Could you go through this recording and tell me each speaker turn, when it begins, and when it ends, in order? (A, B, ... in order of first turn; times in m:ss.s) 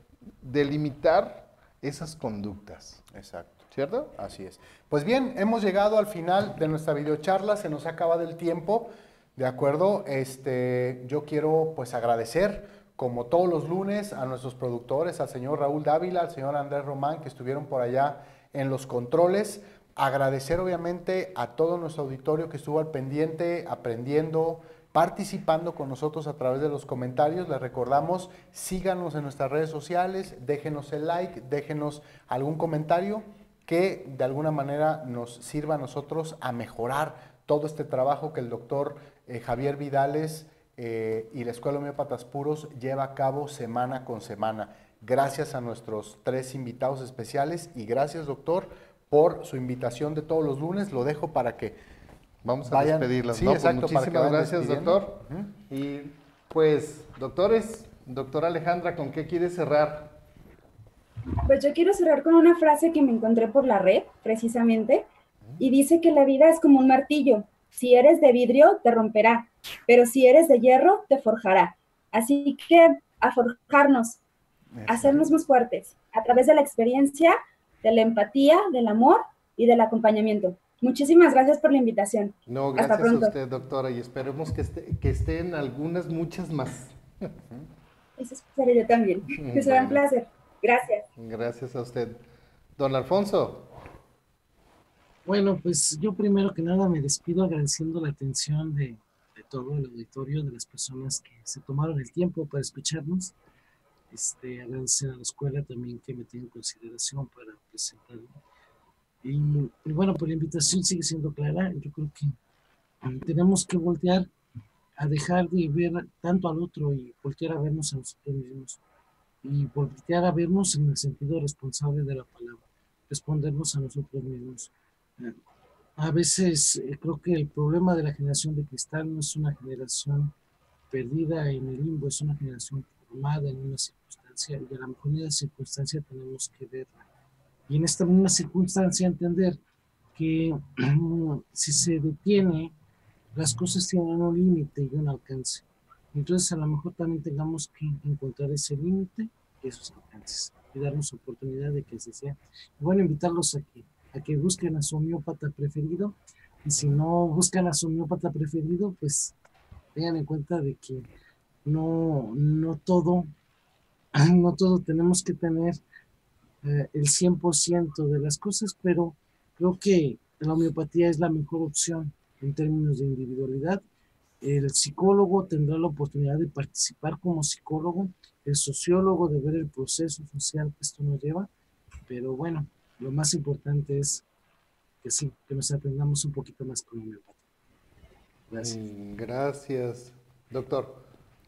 0:00.4-0:03.0 A
0:03.1-0:51.8 B
0:03.7-0:04.1 A
0:52.4-1:00.2 A
0:52.6-0:55.5 B
1:01.4-1:05.1 C
1:05.6-1:14.2 C
1:14.8-1:15.1 A
1:14.8-1:23.3 C
1:22.5-1:27.3 A
1:28.2-1:31.0 C
1:29.3-1:30.0 A
1:31.2-1:32.2 A
1:32.8-1:33.7 A
1:35.2-1:43.3 D
1:44.1-1:48.4 D
1:49.2-1:52.4 D
1:53.0-1:54.3 D
1:55.0-1:58.8 D
1:59.4-2:05.4 D
2:06.0-2:10.3 D
2:10.9-2:17.0 D
2:17.7-2:19.6 D
2:20.1-2:22.7 D
2:23.3-2:39.3 D
2:39.9-2:41.1 D
2:41.6-2:43.3 D
2:44.1-2:45.8 D
2:46.6-2:53.8 D
2:54.4-3:01.5 D
3:02.1-3:04.2 D
3:05.0-3:07.4 D
3:08.5-3:08.8 D
3:08.6-3:11.0 A